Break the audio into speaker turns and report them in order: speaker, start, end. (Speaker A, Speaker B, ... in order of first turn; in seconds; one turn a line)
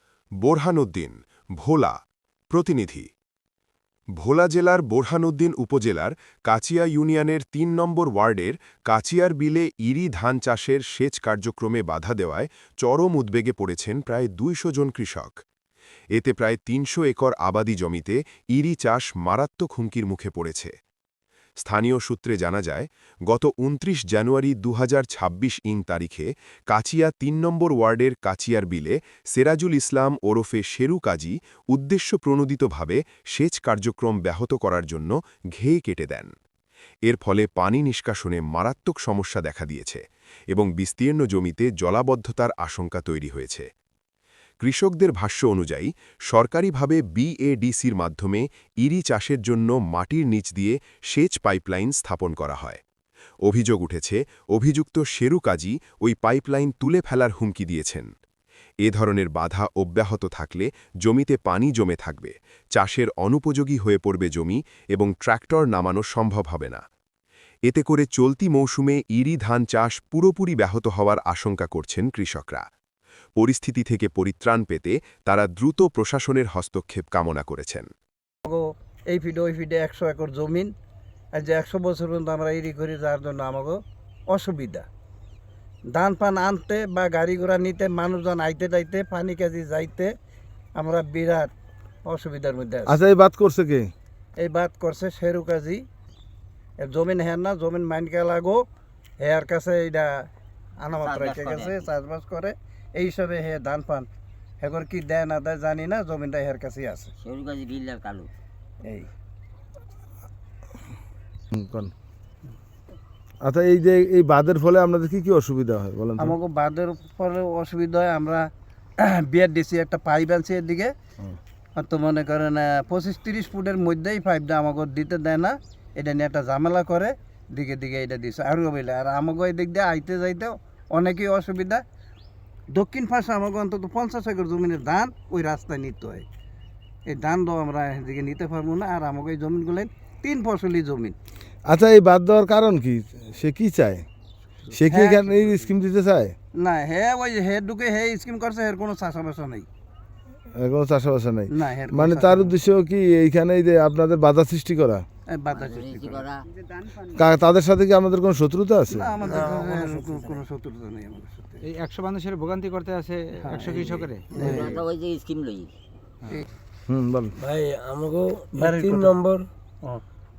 Speaker A: 0.4-2.0
Speaker A: 2.5-3.1
Speaker A: 4.2-15.4
Speaker A: 16.1-20.7
Speaker A: 21.6-36.3
Speaker A: 37.1-43.7
Speaker A: 44.6-52.8
Speaker A: 53.4-58.1
Speaker A: 58.8-66.8
Speaker A: 67.7-72.6
Speaker A: 73.4-77.9
Speaker B: 78.5-80.7
Speaker B: 81.4-83.8
Speaker B: 84.3-84.9
Speaker B: 85.9-90.1
Speaker B: 90.8-91.5
Speaker B: 92.0-93.0
Speaker C: 92.9-93.9
Speaker B: 94.4-95.8
Speaker B: 96.8-98.7
Speaker B: 99.2-100.2
Speaker B: 100.8-104.1
Speaker D: 101.0-101.9
Speaker B: 104.6-107.1
Speaker D: 107.2-108.3
Speaker C: 111.5-111.9
Speaker C: 113.4-116.4
Speaker B: 116.2-118.5
Speaker B: 119.0-120.9
Speaker B: 121.8-131.8
Speaker B: 132.7-136.2
Speaker B: 137.1-141.2
Speaker C: 141.7-144.1
Speaker C: 144.7-146.3
Speaker B: 144.9-145.7
Speaker B: 146.6-149.7
Speaker C: 150.6-155.1
Speaker B: 151.5-152.6
Speaker B: 155.3-156.3
Speaker D: 155.5-156.4
Speaker C: 157.1-159.1
Speaker B: 158.9-161.6
Speaker E: 159.3-159.9
Speaker F: 161.6-164.4
Speaker B: 163.4-164.8
Speaker D: 164.3-165.7
Speaker C: 166.9-167.3
Speaker E: 167.4-169.5
Speaker B: 168.5-169.2